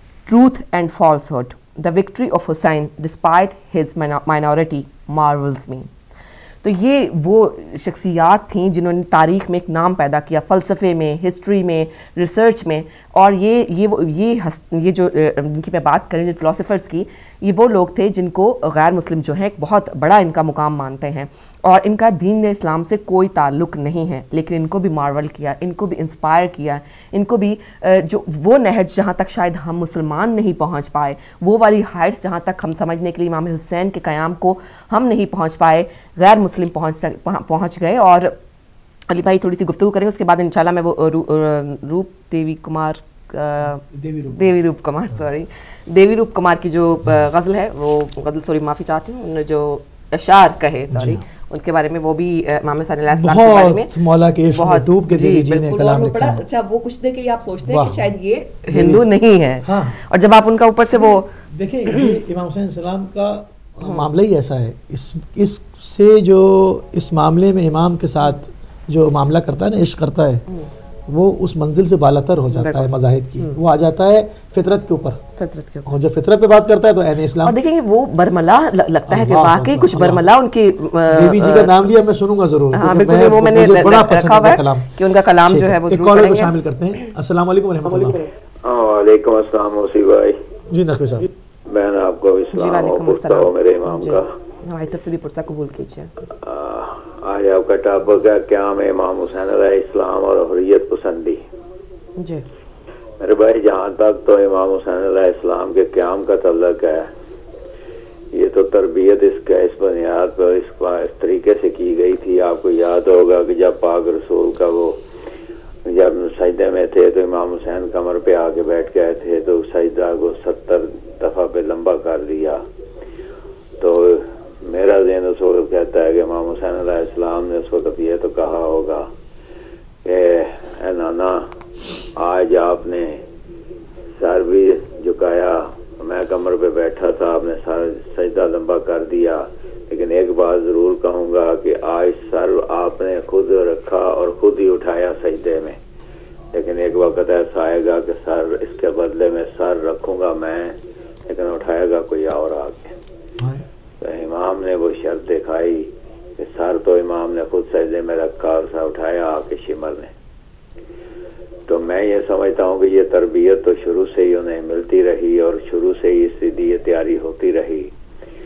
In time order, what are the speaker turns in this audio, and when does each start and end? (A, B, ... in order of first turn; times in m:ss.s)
0:00.2-0:05.9 A
0:06.6-0:38.4 A
0:39.1-0:53.9 A
0:43.9-0:44.4 B
0:50.9-0:51.2 B
0:53.1-0:56.4 B
0:54.5-1:01.3 A
0:57.6-0:58.1 B
0:58.7-0:59.0 B
0:59.6-1:00.0 B
1:01.0-1:10.4 B
1:03.8-1:04.1 A
1:11.1-1:15.2 B
1:12.5-1:13.6 A
1:15.4-1:15.9 A
1:15.8-1:17.6 B
1:17.4-1:21.9 A
1:19.1-1:20.2 B
1:21.1-1:28.2 B
1:22.7-1:26.5 A
1:28.6-1:30.4 C
1:30.7-1:31.3 B
1:31.7-1:34.2 C
1:32.5-1:36.1 A
1:36.4-1:41.4 C
1:42.2-1:42.4 A
1:43.2-1:47.1 C
1:48.3-1:55.0 C
1:55.9-2:02.6 C
2:03.8-2:09.1 C
2:10.0-2:11.5 C
2:12.2-2:13.2 C
2:14.2-2:25.8 C
2:26.5-2:30.8 C
2:31.3-2:32.9 C
2:34.0-2:40.1 C
2:41.7-2:47.9 C